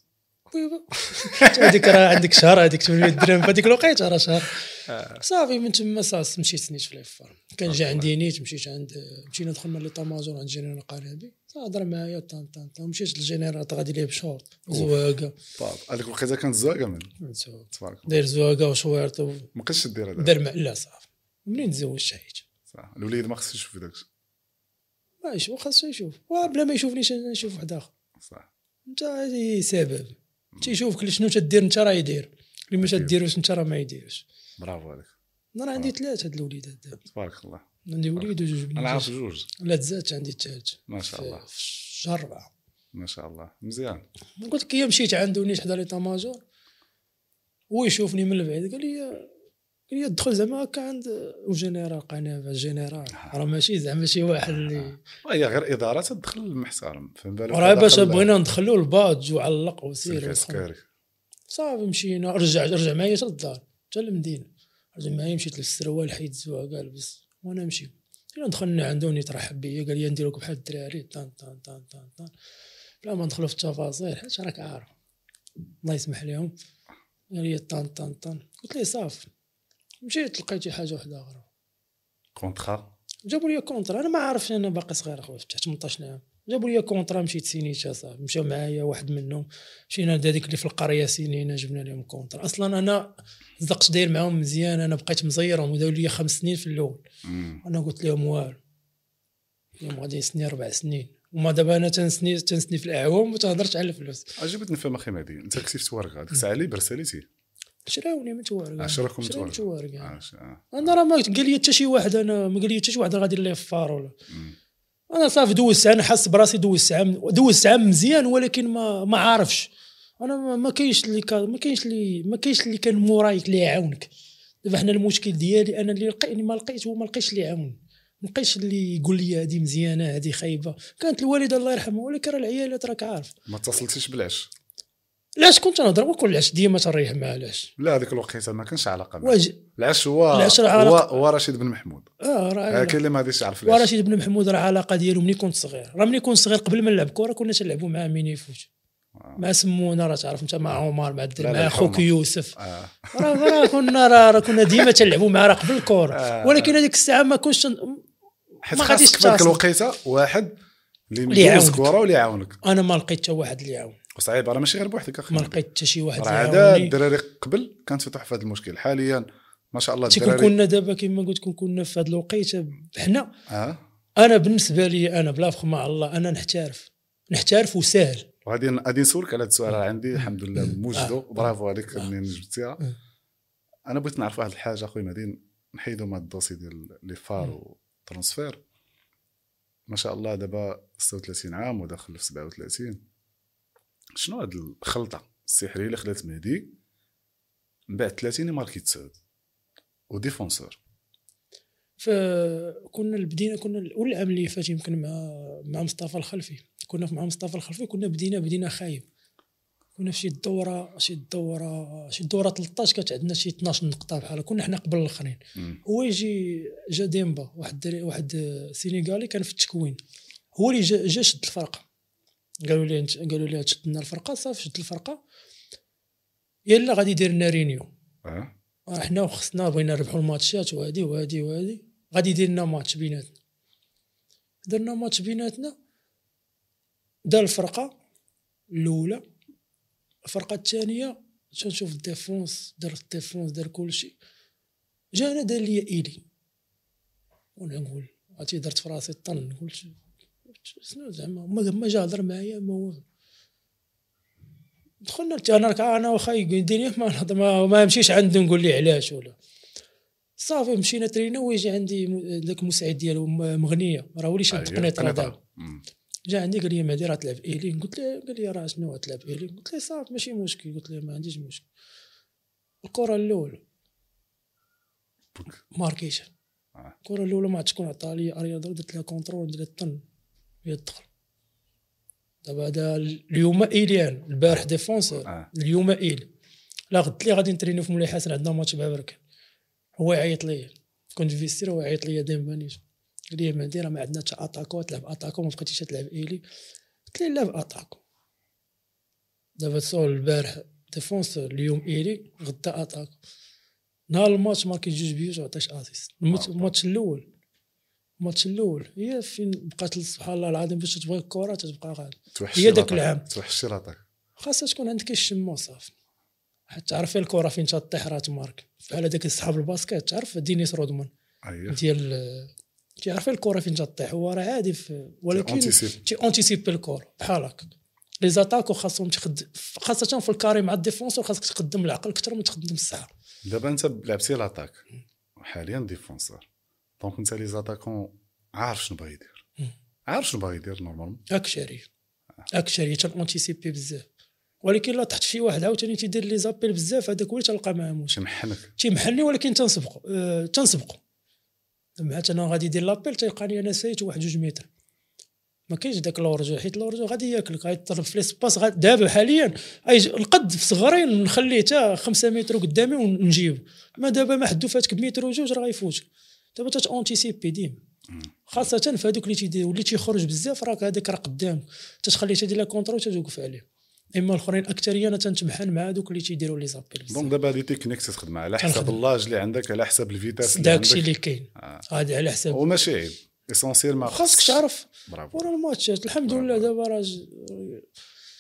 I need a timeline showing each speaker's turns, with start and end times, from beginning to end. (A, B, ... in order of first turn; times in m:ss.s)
0:00.5-0:04.6 A
0:01.3-0:02.0 B
0:04.9-0:05.2 B
0:05.2-0:15.4 A
0:07.7-0:08.1 B
0:14.7-0:15.0 B
0:15.6-0:17.1 B
0:17.2-0:19.5 A
0:17.7-0:18.2 B
0:19.5-0:20.4 B
0:20.2-0:22.4 A
0:22.7-0:24.1 B
0:25.2-0:27.9 A
0:28.2-0:28.5 B
0:28.9-0:34.2 A
0:32.8-0:33.2 B
0:34.6-0:35.1 B
0:35.6-0:37.0 A
0:37.1-0:37.6 B
0:37.9-0:42.5 A
0:38.2-0:39.5 B
0:40.9-0:41.4 B
0:42.9-0:44.0 B
0:44.4-0:46.4 A
0:47.7-0:49.3 A
0:49.9-0:55.0 A
0:54.5-0:58.3 B
0:57.5-1:00.7 A
1:00.0-1:00.8 B
1:01.5-1:12.3 A
1:13.0-1:14.9 A
1:15.8-1:16.5 A
1:17.3-1:19.3 A
1:20.0-1:21.5 A
1:22.4-1:22.9 B
1:23.3-1:37.0 A
1:37.2-1:37.6 B
1:37.6-1:38.6 A
1:39.8-1:44.3 A
1:44.4-1:47.3 B
1:47.9-1:50.1 A
1:48.8-1:50.9 B
1:50.7-1:54.2 A
1:54.3-1:54.6 B
1:55.1-2:04.1 A
2:04.6-2:13.3 A
2:13.5-2:14.5 B
2:15.4-2:17.7 A
2:17.8-2:22.1 B
2:19.2-2:19.6 A
2:20.3-2:21.2 A
2:22.2-2:23.0 A
2:22.7-2:23.9 B
2:23.7-2:28.7 A
2:29.4-2:32.6 A
2:31.4-2:33.8 B
2:33.1-2:38.0 A
2:36.1-2:36.8 B
2:38.6-2:40.5 B
2:38.7-2:39.6 A
2:41.1-2:42.6 B
2:41.3-2:41.9 A
2:42.6-2:44.0 A
2:44.2-2:45.6 B
2:45.3-2:47.0 A
2:46.2-2:50.6 B
2:50.1-2:53.3 A
2:53.5-2:53.8 B
2:54.2-2:58.3 A
2:58.4-3:02.8 B
3:03.9-3:08.6 B
3:09.9-3:13.0 B
3:14.2-3:16.7 B
3:17.9-3:19.1 B
3:20.1-3:20.8 B
3:22.0-3:29.1 A
3:30.0-3:40.0 A
3:40.6-3:41.8 A
3:42.6-3:45.2 A
3:46.7-3:47.9 A
3:48.2-3:48.5 B
3:48.9-3:53.3 A
3:54.7-3:55.8 A
3:57.3-3:57.9 A
3:58.7-3:59.2 A
4:00.3-4:04.2 A
4:05.1-4:06.2 A
4:07.6-4:10.0 A
4:10.6-4:13.0 A
4:15.0-4:19.4 A
4:20.4-4:25.3 A
4:24.5-4:25.8 B
4:26.3-4:31.6 A
4:32.8-4:33.6 A
4:35.3-4:35.6 B
4:35.7-4:36.3 A
4:37.0-4:40.0 A
4:40.6-4:41.1 A
4:42.4-4:46.3 A
4:46.9-4:49.2 A
4:50.0-4:56.4 A
4:57.1-4:58.0 A
4:59.6-5:03.1 A
5:04.1-5:07.3 A
5:06.3-5:06.7 B
5:08.2-5:13.3 A
5:12.3-5:14.0 B
5:14.4-5:15.9 A
5:16.7-5:21.1 A
5:21.4-5:21.8 B
5:21.7-5:22.5 A
5:23.0-5:27.7 A
5:25.3-5:26.0 B
5:28.2-5:33.1 A
5:33.4-5:34.8 B
5:35.4-5:36.4 B
5:37.0-5:39.4 B
5:40.1-5:41.2 B
5:41.3-5:41.9 A
5:42.5-5:44.1 A
5:44.6-5:48.2 A
5:48.1-5:48.7 B
5:48.8-5:51.0 A
5:52.0-5:54.7 A
5:55.7-6:07.8 A
6:08.1-6:08.6 B
6:08.5-6:17.3 A
6:17.1-6:21.8 B
6:18.6-6:19.0 A
6:20.4-6:22.6 A
6:22.5-6:25.5 B
6:24.0-6:27.9 A
6:26.3-6:26.7 B